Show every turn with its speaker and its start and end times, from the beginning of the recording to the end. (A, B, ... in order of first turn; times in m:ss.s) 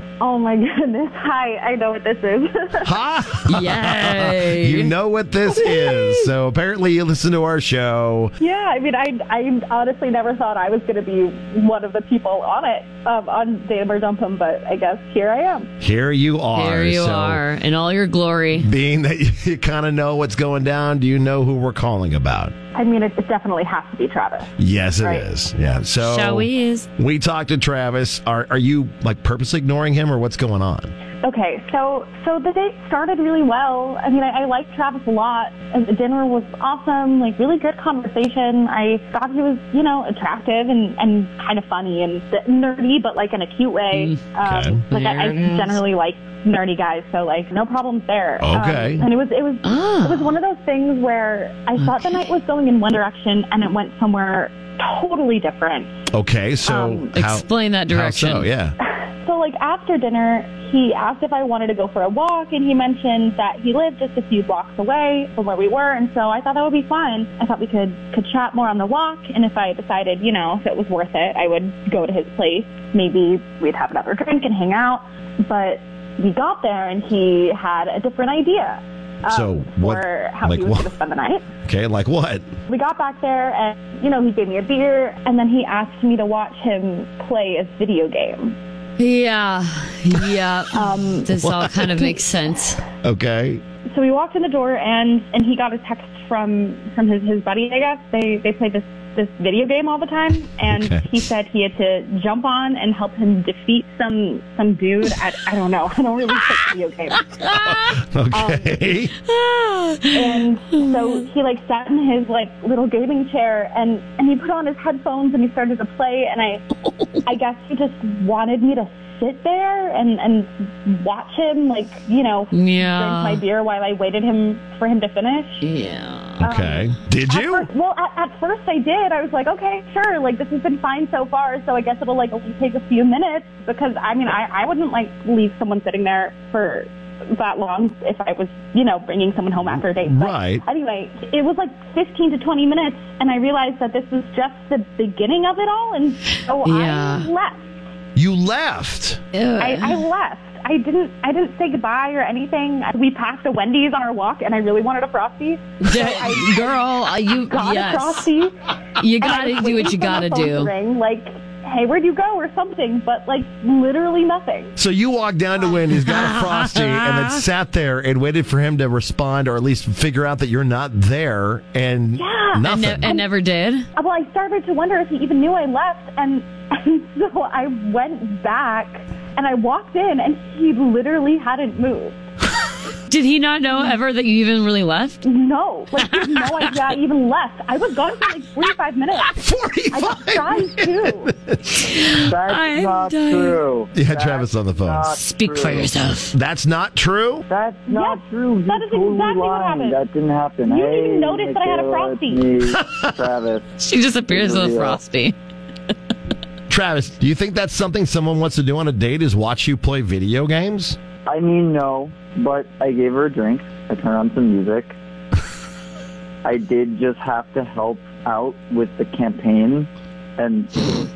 0:00.2-0:03.0 A
0:02.8-0:08.3 B
0:03.5-0:04.9 C
0:05.5-0:06.3 A
0:08.4-0:15.7 A
0:15.8-0:17.4 B
0:16.5-0:18.7 C
0:18.5-0:22.5 B
0:22.7-0:25.3 A
0:24.6-0:30.9 B
0:26.0-0:26.9 C
0:31.2-0:56.0 A
0:43.9-0:44.2 C
0:44.4-0:44.8 B
0:44.9-0:45.8 C
0:48.4-0:49.1 B
0:49.6-0:50.4 C
0:51.8-0:52.2 C
0:56.1-0:58.7 B
0:56.6-0:57.1 A
0:57.1-0:58.5 C
0:59.0-1:21.4 A
1:19.3-1:20.9 B
1:21.6-1:22.5 B
1:22.7-1:28.6 A
1:29.0-1:32.8 C
1:30.7-1:31.3 A
1:31.4-1:32.1 B
1:33.0-1:33.6 B
1:33.9-1:47.7 A
1:40.6-1:41.1 B
1:47.4-1:47.8 C
1:47.5-1:49.1 B
1:48.3-1:48.8 A
1:49.3-1:51.2 C
1:50.1-1:56.6 A
1:56.8-1:57.2 C
1:57.2-2:05.6 A
2:02.5-2:03.4 C
2:05.6-2:06.4 C
2:06.4-2:07.7 B
2:06.4-2:27.7 A
2:19.6-2:20.6 B
2:26.6-2:27.3 C
2:28.1-2:29.2 B
2:29.3-2:30.0 C
2:29.6-2:38.6 A
2:35.8-2:38.2 C
2:39.0-2:40.7 C
2:39.2-2:44.7 A
2:44.8-2:53.2 B
2:45.9-2:47.4 C
2:52.2-2:53.2 A
2:52.6-2:53.9 C
2:53.9-3:02.2 A
3:03.1-3:05.2 C
3:05.2-3:09.4 A
3:06.0-3:06.7 C
3:09.3-3:11.6 B
3:09.9-3:11.3 A
3:11.7-3:13.6 C
3:12.2-3:15.9 D
3:13.9-3:15.2 B
3:15.1-3:16.4 C
3:16.3-3:17.4 B
3:17.5-3:23.7 D
3:17.9-3:20.0 A
3:20.6-3:22.5 A
3:22.7-3:23.1 B
3:23.8-3:25.4 C
3:24.3-3:25.0 D
3:26.7-3:31.0 B
3:31.2-3:35.0 D
3:36.4-3:41.0 D